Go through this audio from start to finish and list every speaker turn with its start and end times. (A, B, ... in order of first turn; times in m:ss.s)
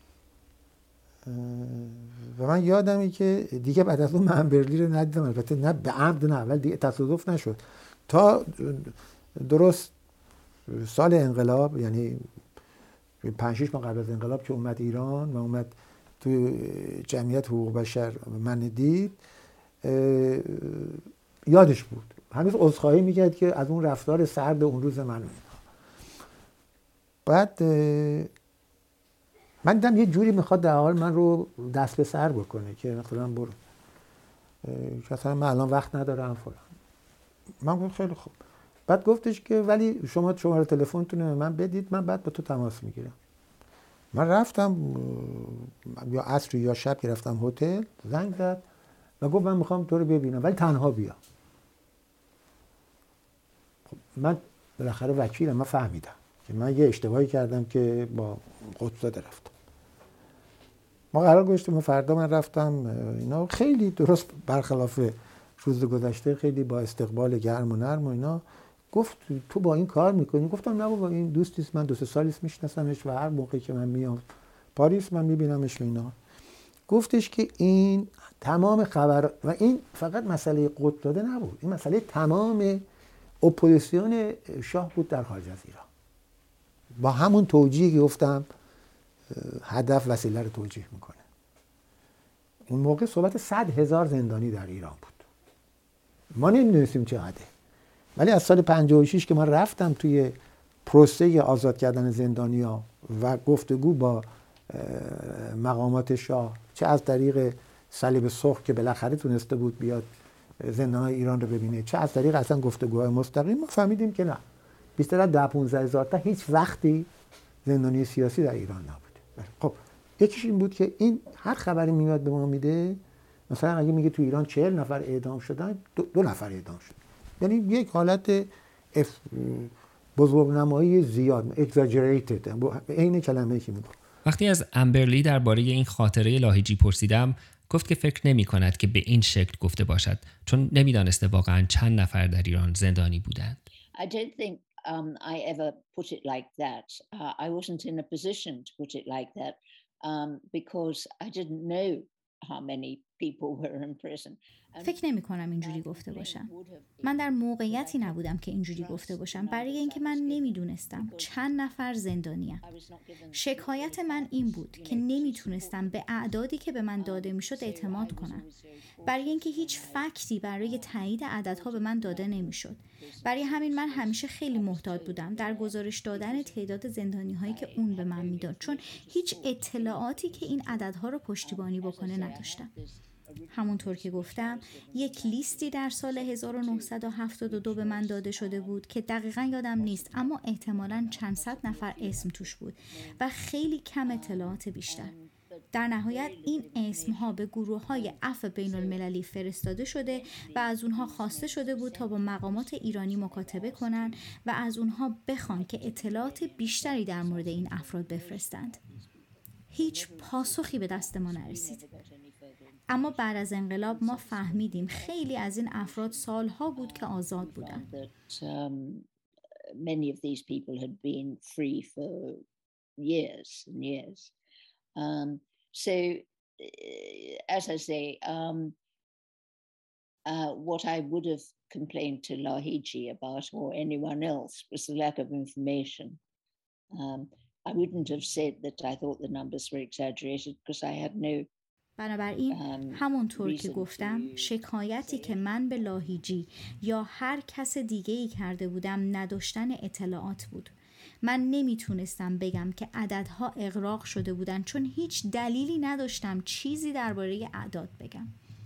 0:01.2-0:09.9 A
0:10.7-0:12.3 A
0:13.2-0:19.2 A
0:19.8-0:25.6 A
0:27.2-0:28.3 A
0:29.6-0:33.6 A
0:34.6-0:36.7 A
0:37.6-0:38.4 A
0:38.9-0:43.2 A
0:44.1-0:48.6 A
0:49.2-0:51.2 A
0:53.9-0:59.5 A
1:01.1-1:14.2 A
1:14.7-1:16.1 A
1:16.9-1:22.8 A
1:23.4-1:25.9 A
1:26.9-1:28.5 A
1:29.3-1:31.2 A
1:32.7-1:35.2 A
1:36.3-1:37.5 A
1:38.2-1:50.1 A
1:50.6-1:54.4 A
1:55.0-1:57.1 A
1:57.6-2:14.0 A
2:14.2-2:23.6 B
2:23.9-2:35.0 C
2:34.8-2:36.5 D
2:35.6-2:41.5 C
2:37.0-2:42.6 D
2:42.6-2:46.2 C
2:43.3-2:48.4 D
2:47.0-2:56.8 C
2:49.0-3:02.7 D
2:57.4-3:08.9 C
3:03.5-3:15.1 D
3:09.7-3:13.3 C
3:14.0-3:19.1 C
3:15.7-3:28.8 D
3:19.9-3:24.4 C
3:25.4-3:39.1 C
3:29.7-3:31.8 D
3:32.9-3:37.8 D
3:39.8-3:42.4 C
3:43.0-3:44.3 C
3:45.0-3:48.8 C
3:50.2-3:56.2 C
3:56.9-4:01.5 C
4:02.0-4:18.3 D
4:02.5-4:06.4 C